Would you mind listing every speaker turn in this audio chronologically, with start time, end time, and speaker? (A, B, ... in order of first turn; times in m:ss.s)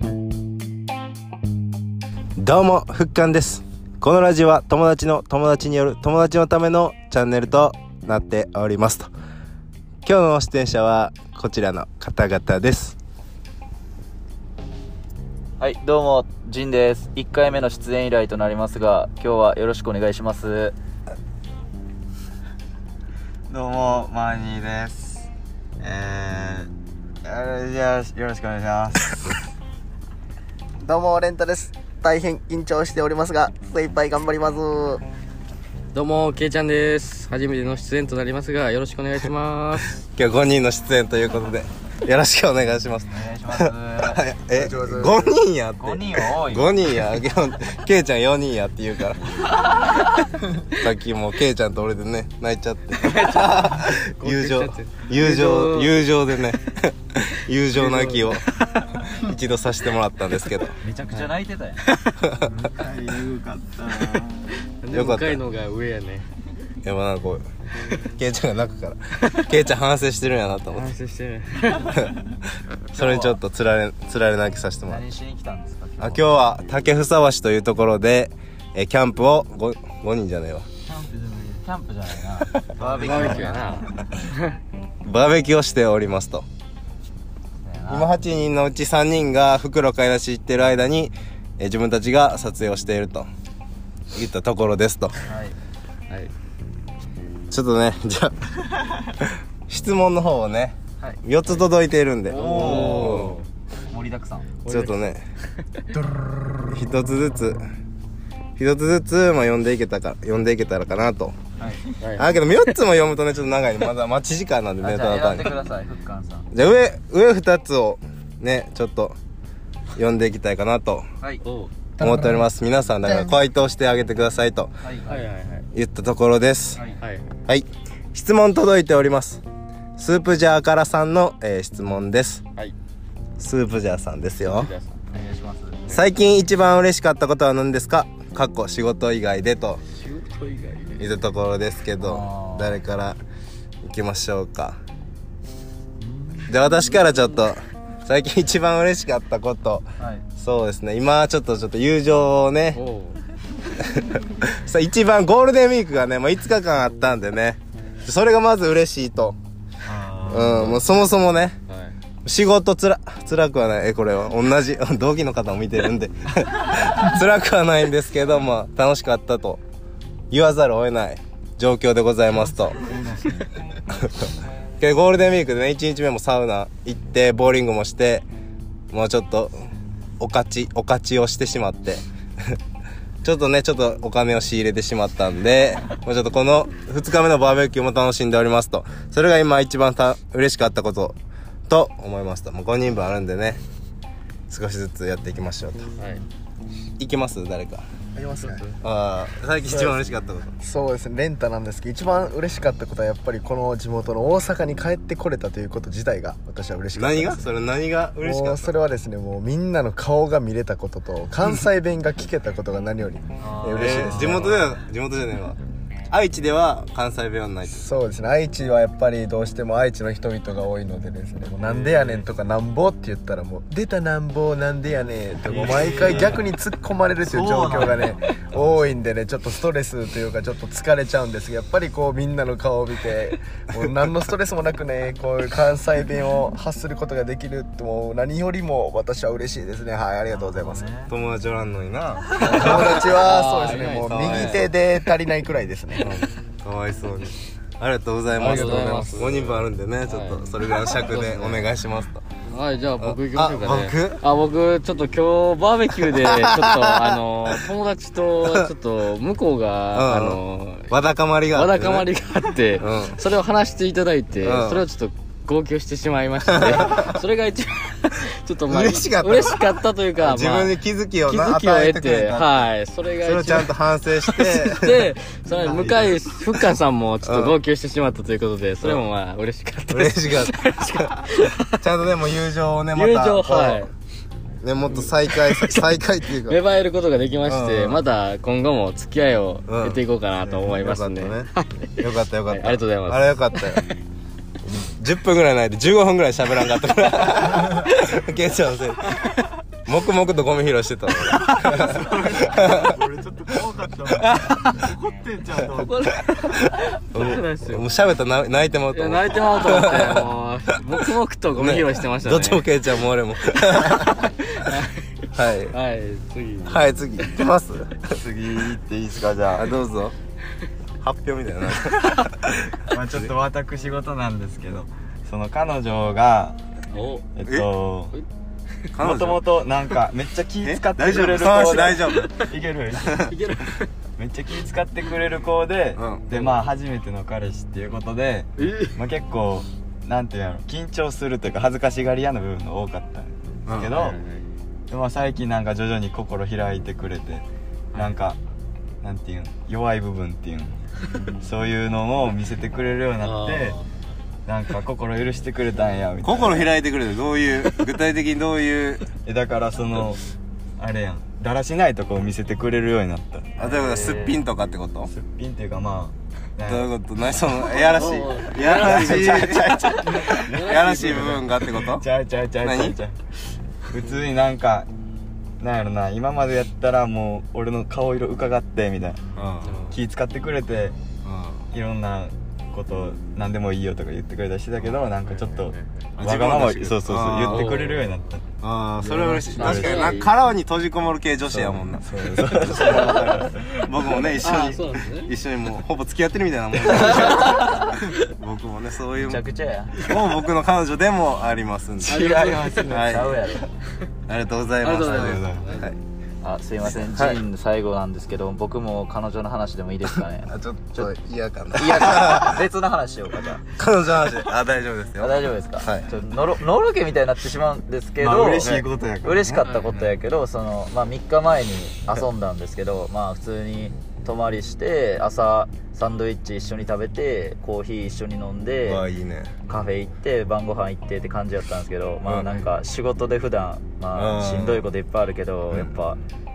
0:02.4-0:09.1 A
0:10.0-0:13.0 A
0:15.6-0:20.7 B
0:23.5-0:25.3 C
0:25.8-0:26.7 C
0:27.2-0:29.4 C
0:30.8-0:35.0 D
0:35.9-0:40.0 E
0:40.1-0:49.4 A
0:43.1-0:44.2 B
0:44.5-0:45.3 D
0:45.8-0:46.8 B
0:50.7-0:58.4 A
0:53.0-0:55.9 E
0:57.7-0:59.0 E
0:59.0-1:00.8 A
1:00.8-1:01.8 B
1:01.9-1:02.2 E
1:02.2-1:02.4 A
1:02.5-1:04.5 C
1:03.9-1:06.3 E
1:04.9-1:05.4 A
1:06.8-1:07.4 A
1:08.2-1:10.9 A
1:09.2-1:09.5 E
1:10.7-1:12.1 E
1:12.9-1:15.0 A
1:12.9-1:13.3 B
1:14.9-1:16.2 B
1:16.0-1:20.7 A
1:20.9-1:24.0 B
1:22.8-1:24.0 C
1:22.9-1:24.6 E
1:25.0-1:26.4 A
1:27.6-1:28.1 B
1:27.9-1:33.3 A
1:34.1-1:35.2 A
1:35.3-1:35.6 B
1:37.5-1:43.4 A
1:42.3-1:43.4 E
1:42.3-1:43.3 B
1:42.5-1:43.0 C
1:43.9-1:44.5 B
1:44.6-1:45.0 E
1:44.7-1:45.2 A
1:45.9-1:46.7 D
1:46.7-1:47.6 A
1:48.6-1:51.4 A
1:51.6-1:51.9 B
1:52.0-1:52.7 E
1:52.2-1:55.6 A
1:54.8-1:56.5 B
1:56.5-1:59.2 A
2:00.0-2:01.1 A
2:01.4-2:01.7 E
2:02.0-2:02.5 D
2:02.0-2:04.7 A
2:03.0-2:03.4 D
2:04.8-2:05.2 B
2:05.1-2:05.7 E
2:05.7-2:06.8 A
2:07.0-2:07.3 E
2:07.5-2:09.4 A
2:10.0-2:12.4 A
2:13.4-2:14.7 A
2:14.4-2:15.0 E
2:15.1-2:15.8 B
2:15.9-2:19.8 A
2:19.9-2:21.1 E
2:21.0-2:23.2 A
2:22.0-2:22.8 B
2:23.8-2:24.8 A
2:26.1-2:27.2 E
2:26.5-2:29.8 A
2:30.0-2:30.2 B
2:30.4-2:32.8 A
2:32.8-2:33.2 E
2:33.8-2:39.4 A
2:39.8-2:40.6 C
2:40.3-2:41.6 A
2:40.4-2:41.0 E
2:41.7-2:41.9 E
2:42.2-2:49.6 A
2:50.3-2:52.8 A
2:52.4-2:53.5 C
2:53.9-2:58.2 A
2:58.9-2:59.6 A
3:00.2-3:02.6 A
3:03.2-3:11.2 A
3:11.7-3:13.6 A
3:14.5-3:15.9 A
3:17.0-3:17.8 A
3:18.2-3:18.7 D
3:18.8-3:20.5 A
3:19.7-3:20.0 D
3:20.6-3:27.5 D
3:26.9-3:28.8 A
3:28.2-3:34.7 D
3:33.4-3:34.5 C
3:33.7-3:35.6 A
3:36.1-3:37.9 A
3:37.7-4:00.9 D
3:41.6-3:42.3 C
3:45.5-3:46.5 C
3:47.2-3:48.5 C
4:00.3-4:01.1 B
4:00.6-4:01.1 C
4:01.1-4:03.2 A
4:02.4-4:06.2 D
4:02.6-4:04.7 E
4:04.0-4:04.7 A
4:06.0-4:12.3 A
4:08.3-4:11.7 E
4:08.6-4:09.0 D
4:12.5-4:20.9 E
4:13.0-4:14.2 A
4:16.0-4:17.6 A
4:18.4-4:18.7 A
4:19.9-4:22.1 A
4:21.5-4:30.8 E
4:22.8-4:23.2 A
4:24.4-4:24.9 A
4:26.4-4:27.2 A
4:28.7-4:32.7 A
4:31.3-4:41.8 E
4:33.2-4:35.1 A
4:35.5-4:36.2 C
4:37.2-4:37.6 A
4:39.9-4:43.9 A
4:43.0-4:43.9 E
4:44.6-4:46.6 A
4:44.9-4:54.0 E
4:47.4-4:48.0 A
4:49.7-4:53.8 A
4:54.6-5:03.0 A
5:01.5-5:06.3 C
5:04.1-5:04.5 A
5:05.8-5:06.2 B
5:07.1-5:14.3 A
5:07.1-5:07.8 E
5:08.9-5:12.6 E
5:13.6-5:16.9 E
5:15.3-5:15.8 A
5:16.6-5:18.2 A
5:18.1-5:19.7 C
5:19.5-5:20.1 A
5:21.0-5:23.3 A
5:22.9-5:26.6 C
5:26.9-5:27.3 E
5:27.4-5:28.2 C
5:28.9-5:29.4 A
5:29.0-5:33.2 C
5:30.6-5:32.3 A
5:32.1-5:32.5 E
5:33.0-5:33.3 A
5:33.1-5:33.9 E
5:34.2-5:44.2 C
5:36.0-5:36.2 A
5:36.3-5:36.6 E
5:38.6-5:39.0 E
5:43.6-5:44.1 A
5:43.9-5:44.4 E
5:44.9-5:48.4 C
5:49.0-5:50.8 C
5:51.4-5:53.8 C
5:53.2-5:53.8 E
5:54.5-5:56.7 C
5:56.2-5:59.0 A
5:59.2-6:00.2 C
6:00.8-6:03.6 C
6:03.6-6:05.1 A
6:03.6-6:04.4 B
6:05.0-6:06.9 C
6:06.7-6:12.0 A
6:07.7-6:11.5 E
6:07.8-6:13.2 C
6:12.6-6:13.0 A
6:13.9-6:14.9 C
6:15.6-6:19.2 C
6:19.4-6:19.8 A
6:19.6-6:20.0 E
6:19.9-6:21.0 C
6:21.2-6:21.6 A
6:21.7-6:28.5 C
6:25.2-6:25.9 E
6:26.2-6:27.9 A
6:27.4-6:28.1 E
6:28.6-6:39.4 A
6:29.0-6:30.1 C
6:29.1-6:30.3 E
6:31.5-6:33.9 C
6:32.6-6:35.3 E
6:36.8-6:38.2 E
6:39.2-6:40.1 B
6:40.0-6:43.4 A
6:42.0-6:43.6 C
6:42.0-6:43.0 E
6:43.0-6:43.7 B
6:44.3-6:46.0 A
6:44.8-6:45.9 E
6:45.0-6:45.7 C
6:46.4-6:51.1 B
6:46.9-6:47.4 A
6:50.5-6:52.6 A
6:51.7-6:53.8 B
6:53.7-6:56.1 A
6:55.2-7:09.0 B
6:58.2-6:59.6 C
6:59.6-7:00.1 E
7:08.8-7:09.6 A
7:09.6-7:16.2 B
7:12.2-7:12.7 A
7:14.1-7:14.9 A